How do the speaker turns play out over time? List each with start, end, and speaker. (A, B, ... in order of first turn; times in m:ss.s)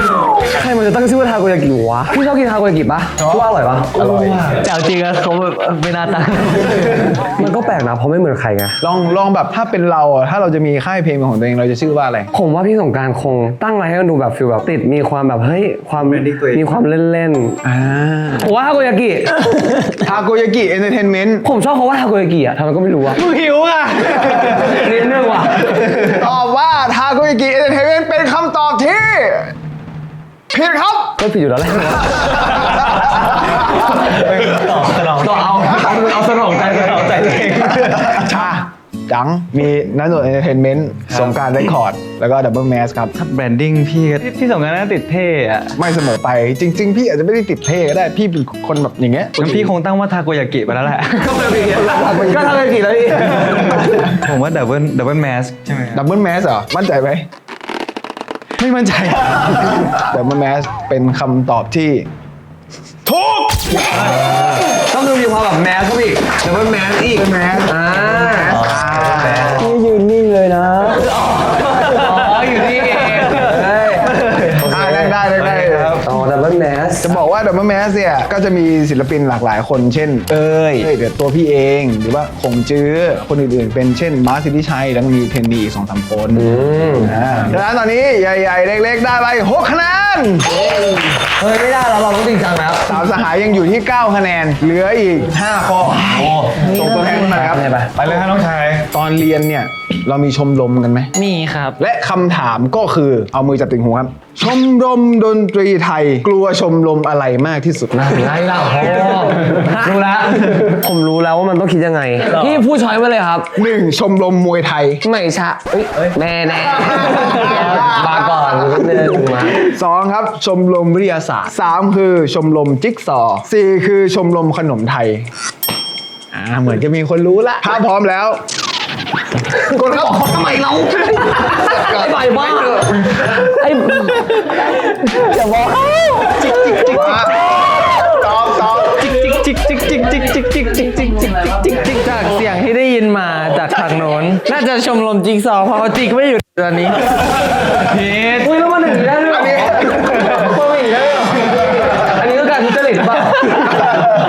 0:00.4-0:04.4 A
0:03.2-0:07.0 B
0:04.0-0:04.5 C
0:07.2-0:08.8 A
0:08.8-0:12.3 C
0:12.3-0:17.6 A
0:16.0-0:16.8 B
0:17.6-0:18.5 C
0:18.4-0:20.0 A
0:20.0-0:21.4 C
0:21.4-0:23.2 A
0:23.2-0:24.8 B
0:24.3-0:25.9 A
0:26.0-0:29.5 C
0:30.5-0:31.2 C
0:31.2-0:32.7 A
0:32.9-0:38.4 B
0:35.2-0:37.7 A
0:38.0-0:43.1 C
0:43.2-0:45.7 B
0:45.7-0:49.7 C
0:49.4-0:52.4 B
0:51.2-0:54.0 A
0:53.3-0:56.0 B
0:55.9-0:57.2 C
0:58.6-1:00.0 B
0:59.9-1:02.1 C
1:03.0-1:03.8 C
1:03.9-1:08.6 A
1:06.6-1:09.6 C
1:08.3-1:09.7 B
1:09.5-1:15.1 A
1:11.7-1:16.1 B
1:14.6-1:16.0 C
1:16.0-1:17.1 A
1:17.0-1:30.6 C
1:26.3-1:27.2 A
1:30.5-1:32.8 A
1:32.8-1:37.6 C
1:36.0-1:36.7 B
1:36.8-1:37.9 A
1:36.9-1:37.2 D
1:37.9-1:38.9 B
1:38.9-1:41.1 C
1:41.1-1:41.8 D
1:41.8-1:48.0 C
1:47.9-1:53.5 A
1:53.5-1:55.0 C
1:55.0-1:59.6 A
1:57.3-1:58.6 C
1:59.6-2:05.3 C
2:06.4-2:06.8 C
2:07.6-2:08.4 C
2:09.6-2:16.6 A
2:09.8-2:10.1 C
2:11.8-2:12.0 C
2:16.3-2:17.3 D
2:16.8-2:19.0 C
2:18.8-2:27.2 D
2:27.8-2:28.5 B
2:28.3-2:34.1 A